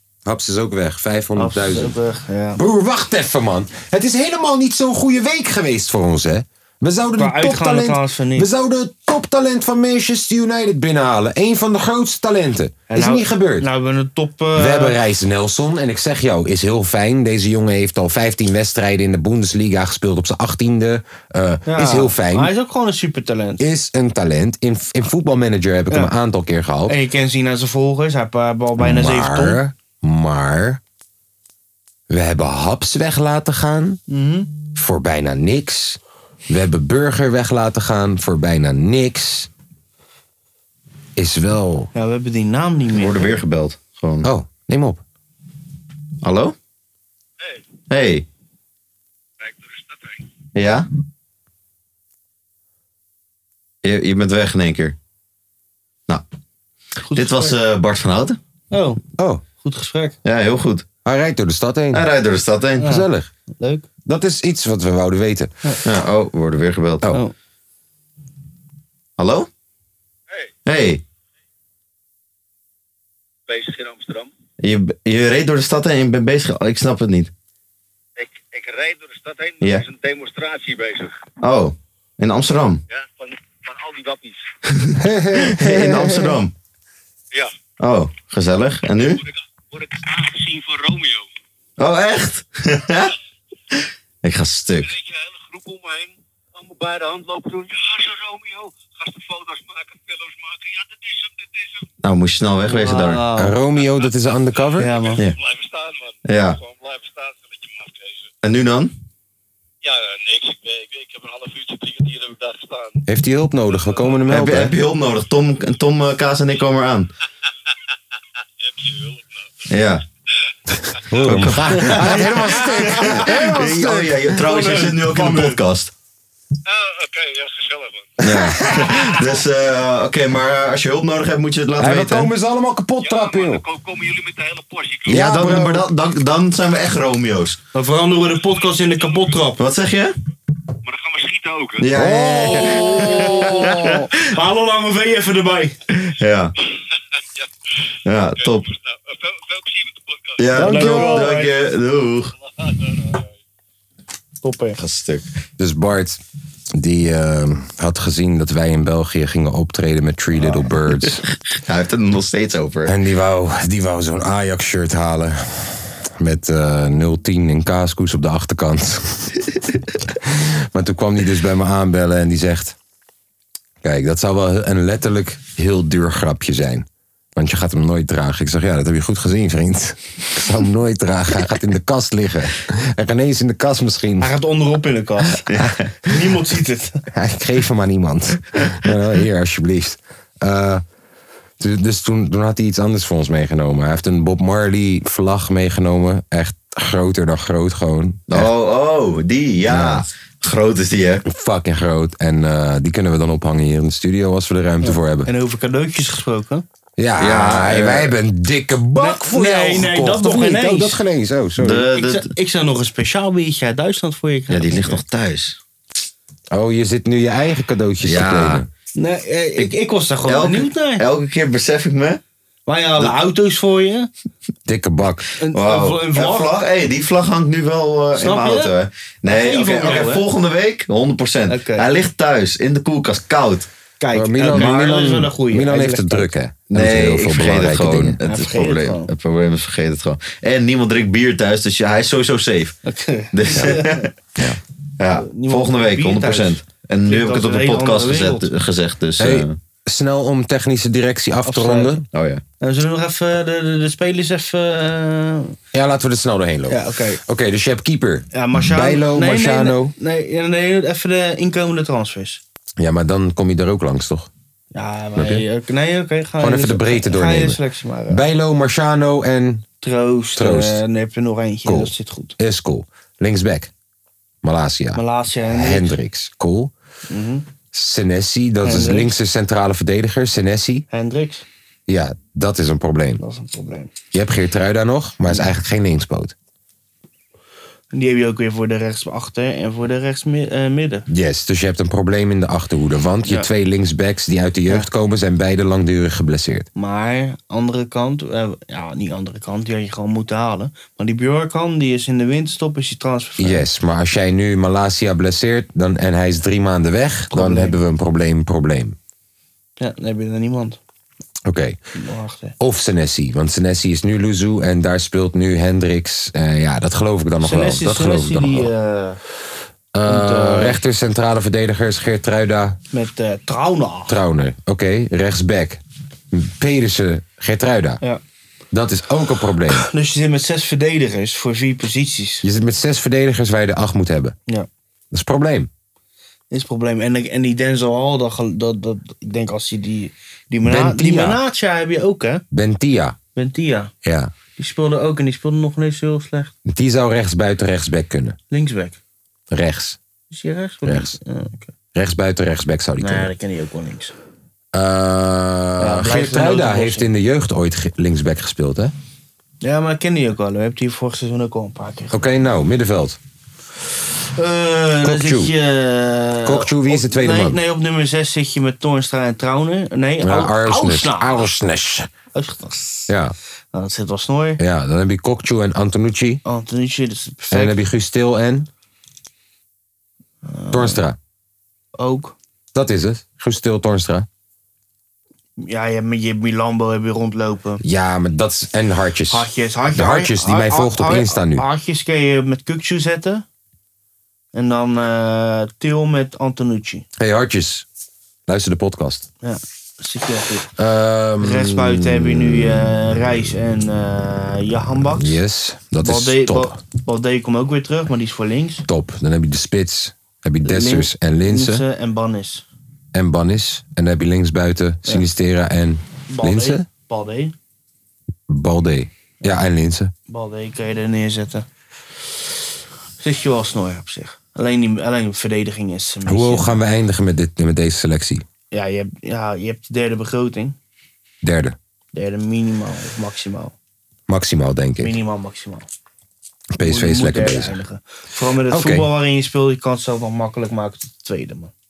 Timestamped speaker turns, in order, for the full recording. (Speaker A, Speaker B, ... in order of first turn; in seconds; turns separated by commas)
Speaker A: 0.2-1.9, Speaker B: 1.4-2.6, Speaker A: 2.5-13.7, Speaker B: 7.2-8.5, Speaker B: 12.9-15.0, Speaker A: 14.5-22.5, Speaker B: 21.7-23.6, Speaker A: 23.6-26.9, Speaker B: 26.9-29.6, Speaker A: 28.8-30.8, Speaker A: 32.1-34.0, Speaker B: 34.1-34.5, Speaker A: 34.8-39.5, Speaker A: 41.1-41.9, Speaker B: 41.9-43.3, Speaker C: 42.9-44.3, Speaker A: 44.2-45.0, Speaker C: 46.2-46.5, Speaker C: 47.9-48.2, Speaker C: 50.5-50.9, Speaker C: 53.8-55.0, Speaker B: 57.1-57.6, Speaker C: 57.1-58.4, Speaker B: 58.7-59.0, Speaker A: 59.2-59.4, Speaker B: 59.6-60.1, Speaker C: 60.2-60.9, Speaker A: 61.0-62.0, Speaker C: 61.9-62.9, Speaker B: 62.8-63.0, Speaker A: 62.8-63.3, Speaker B: 63.6-63.9, Speaker A: 64.0-65.5, Speaker C: 65.8-67.0, Speaker C: 69.2-69.5, Speaker C: 70.7-71.0, Speaker D: 73.5-74.3, Speaker C: 74.6-77.3, Speaker D: 78.2-81.1, Speaker C: 79.6-79.8, Speaker C: 81.4-82.8, Speaker D: 82.9-84.3, Speaker C: 84.7-86.5, Speaker A: 85.0-86.4, Speaker C: 87.8-89.2, Speaker D: 89.8-91.2, Speaker C: 91.8-93.1, Speaker C: 94.2-94.9, Speaker D: 95.2-101.4, Speaker C: 102.0-103.2, Speaker B: 102.7-103.5, Speaker A: 103.3-105.1, Speaker B: 104.8-105.2, Speaker D: 105.4-106.1, Speaker C: 106.2-106.6, Speaker D: 106.6-108.1, Speaker C: 108.4-108.9, Speaker D: 109.8-113.0, Speaker A: 113.0-114.7, Speaker C: 114.3-117.1, Speaker D: 118.7-119.2, Speaker C: 119.7-120.0, Speaker A: 121.0-124.2, Speaker C: 121.2-125.9, Speaker B: 121.8-123.3, Speaker B: 124.3-125.6, Speaker D: 126.7-128.1, Speaker A: 128.2-129.0, Speaker C: 128.2-132.3, Speaker A: 131.8-133.6, Speaker D: 133.1-135.1, Speaker C: 135.0-137.6, Speaker A: 135.1-135.9, Speaker B: 137.7-139.6, Speaker C: 139.6-140.1, Speaker D: 140.9-141.8, Speaker C: 141.8-144.2, Speaker A: 141.9-143.7, Speaker B: 142.4-145.7, Speaker C: 146.0-146.5, Speaker C: 148.1-148.7, Speaker D: 149.1-150.3, Speaker C: 150.4-152.3, Speaker B: 150.5-151.5, Speaker A: 150.6-151.2, Speaker B: 154.4-154.8, Speaker C: 154.8-155.2, Speaker A: 155.6-156.2, Speaker A: 156.7-161.2, Speaker C: 161.6-162.9, Speaker A: 162.9-169.4, Speaker A: 170.2-172.8, Speaker A: 173.8-184.3, Speaker B: 184.2-185.5, Speaker B: 186.0-187.0, Speaker A: 187.1-190.8, Speaker A: 191.6-198.5, Speaker C: 198.3-201.2, Speaker A: 199.7-200.1, Speaker A: 201.2-205.3, Speaker B: 204.8-206.6, Speaker A: 207.0-211.8, Speaker C: 207.2-208.1, Speaker B: 209.0-211.0, Speaker C: 211.6-212.3, Speaker B: 211.9-215.0, Speaker C: 214.5-215.6, Speaker A: 216.5-218.7, Speaker C: 218.0-218.6, Speaker B: 218.9-221.0, Speaker C: 220.2-222.2, Speaker B: 222.7-224.1, Speaker A: 224.7-225.3, Speaker B: 225.4-226.6, Speaker C: 225.5-233.7, Speaker B: 228.2-228.7, Speaker B: 229.2-230.2, Speaker B: 231.5-231.9, Speaker B: 234.0-236.3, Speaker A: 234.1-238.2, Speaker C: 236.7-242.8, Speaker B: 238.2-239.1, Speaker B: 242.8-244.0, Speaker C: 243.3-244.1, Speaker A: 243.5-243.8, Speaker C: 245.0-249.6, Speaker B: 245.2-248.5, Speaker A: 249.2-252.1, Speaker B: 251.4-251.9, Speaker C: 252.1-252.4, Speaker B: 252.6-255.6, Speaker A: 255.7-259.9, Speaker B: 256.7-257.2, Speaker B: 258.3-262.4, Speaker A: 262.8-264.3, Speaker B: 264.7-268.2, Speaker A: 265.1-265.4, Speaker A: 266.4-269.6, Speaker B: 269.8-272.4, Speaker A: 270.4-270.8, Speaker A: 271.6-273.7, Speaker A: 274.4-276.7, Speaker B: 274.9-275.9, Speaker B: 277.1-277.4, Speaker A: 277.7-280.9, Speaker B: 278.6-279.1, Speaker B: 280.9-281.4, Speaker A: 281.9-283.2, Speaker B: 283.2-283.9, Speaker A: 284.1-286.3, Speaker B: 287.9-291.1, Speaker A: 291.1-296.7, Speaker B: 296.8-303.6, Speaker A: 303.4-309.0, Speaker B: 307.3-307.8, Speaker B: 309.8-310.8, Speaker A: 311.4-311.8, Speaker B: 311.9-312.5, Speaker A: 312.6-318.7, Speaker B: 317.4-319.2, Speaker A: 319.9-322.8, Speaker B: 320.1-320.8, Speaker B: 322.9-324.2, Speaker A: 324.1-325.8, Speaker A: 326.3-328.0, Speaker A: 328.7-329.9, Speaker B: 329.7-332.4, Speaker A: 332.4-334.4, Speaker A: 335.1-335.7, Speaker B: 336.5-342.4, Speaker A: 340.6-341.4, Speaker A: 342.5-343.2, Speaker B: 343.4-343.9, Speaker A: 344.0-344.3, Speaker B: 344.6-346.5, Speaker A: 346.6-348.4, Speaker B: 348.5-349.0, Speaker A: 349.5-350.0, Speaker B: 350.3-351.7, Speaker A: 350.8-351.1, Speaker A: 351.9-353.3, Speaker B: 353.0-354.1, Speaker A: 354.7-358.9, Speaker B: 355.8-357.1, Speaker B: 359.6-362.2, Speaker A: 362.1-363.2, Speaker B: 364.4-371.4, Speaker A: 365.0-365.5, Speaker A: 366.4-367.6, Speaker A: 370.2-372.1, Speaker B: 372.3-373.1, Speaker A: 373.1-373.3, Speaker B: 373.7-374.6, Speaker A: 374.6-376.4, Speaker B: 376.4-377.8, Speaker A: 377.5-378.7, Speaker B: 380.4-381.0, Speaker A: 380.7-381.2, Speaker B: 382.0-382.3, Speaker A: 382.7-384.3, Speaker B: 385.6-387.8, Speaker A: 387.8-391.6, Speaker B: 389.3-393.4, Speaker B: 394.5-397.1, Speaker A: 397.2-397.9, Speaker A: 398.5-399.3, Speaker B: 399.4-400.7, Speaker A: 400.8-402.9, Speaker B: 401.4-405.4, Speaker A: 405.0-406.8, Speaker B: 406.0-408.8, Speaker A: 408.9-411.8, Speaker B: 410.6-412.6, Speaker A: 413.1-416.9, Speaker B: 416.3-417.5, Speaker A: 418.5-420.1, Speaker B: 420.3-421.6, Speaker B: 423.2-426.8, Speaker A: 426.2-428.4, Speaker B: 428.7-430.8, Speaker A: 431.4-431.8, Speaker B: 432.1-433.7, Speaker A: 434.3-435.2, Speaker B: 435.0-435.9, Speaker A: 436.7-437.8, Speaker B: 436.8-441.7, Speaker A: 438.7-439.1